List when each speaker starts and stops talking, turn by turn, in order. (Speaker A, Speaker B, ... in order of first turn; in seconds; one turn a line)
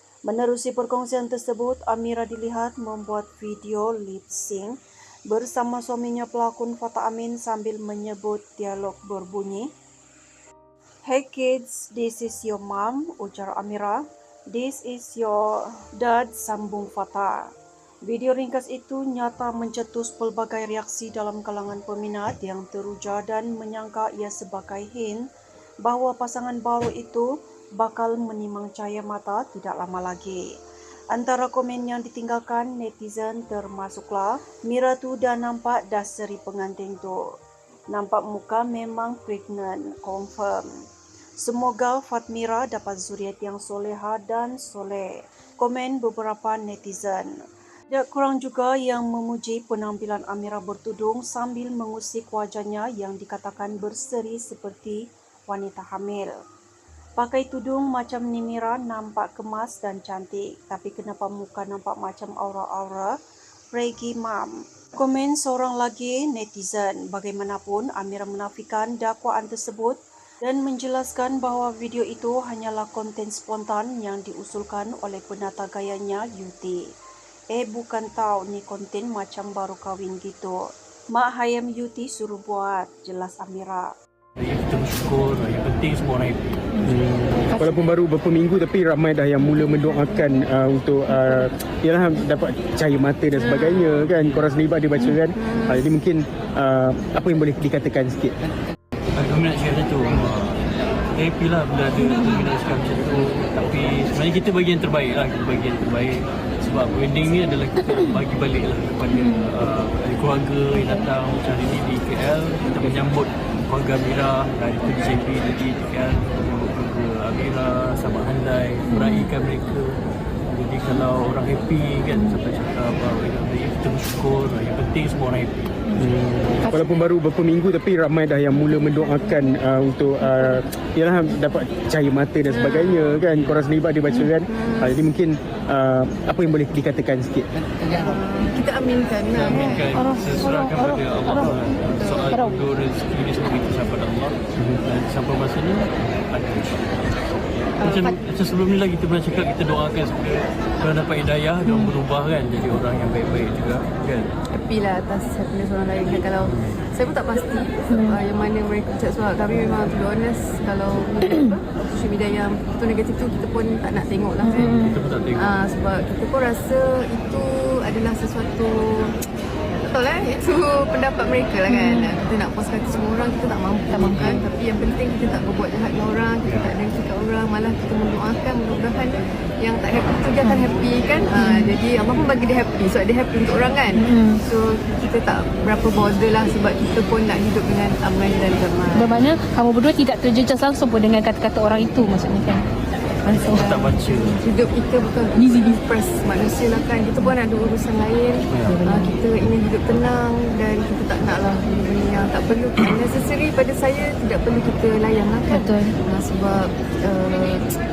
Speaker A: 0.2-4.8
Speaker A: 5.3-9.7
Speaker A: 11.1-17.5
Speaker A: 18.1-25.3
Speaker A: 25.8-27.3
Speaker A: 27.8-30.4
Speaker A: 31.1-37.2
Speaker A: 37.9-40.7
Speaker A: 41.4-45.1
Speaker A: 45.6-47.3
Speaker A: 47.9-56.3
Speaker A: 57.2-63.1
Speaker A: 63.7-76.9
Speaker A: 77.5-83.9
Speaker B: 84.4-86.5
Speaker C: 86.8-98.3
Speaker D: 93.4-93.8
Speaker B: 94.1-94.5
Speaker D: 95.3-95.8
Speaker B: 99.1-100.6
Speaker B: 101.1-120.0
Speaker E: 109.1-109.5
Speaker E: 118.9-119.3
Speaker B: 120.5-125.6
Speaker C: 126.0-137.5
Speaker E: 126.6-126.9
Speaker D: 132.5-133.1
Speaker B: 133.2-133.6
Speaker D: 134.5-134.9
Speaker D: 137.9-140.0
Speaker B: 139.3-146.9
Speaker E: 140.0-141.0
Speaker B: 147.8-154.3
Speaker D: 147.8-148.1
Speaker D: 154.4-164.8
Speaker B: 156.4-156.8
Speaker E: 157.9-158.2
Speaker E: 161.3-161.6
Speaker E: 164.4-165.0
Speaker B: 164.5-165.6
Speaker D: 165.3-169.2
Speaker D: 169.8-189.2
Speaker E: 171.7-172.2
Speaker E: 173.9-174.4
Speaker B: 174.1-174.4
Speaker B: 176.4-176.7
Speaker E: 181.3-181.8
Speaker E: 183.9-184.4
Speaker E: 188.9-192.7
Speaker B: 189.1-189.4
Speaker E: 193.2-193.7
Speaker B: 193.3-194.4
Speaker D: 193.6-207.7
Speaker B: 198.5-198.8
Speaker E: 198.7-199.2
Speaker E: 205.5-205.9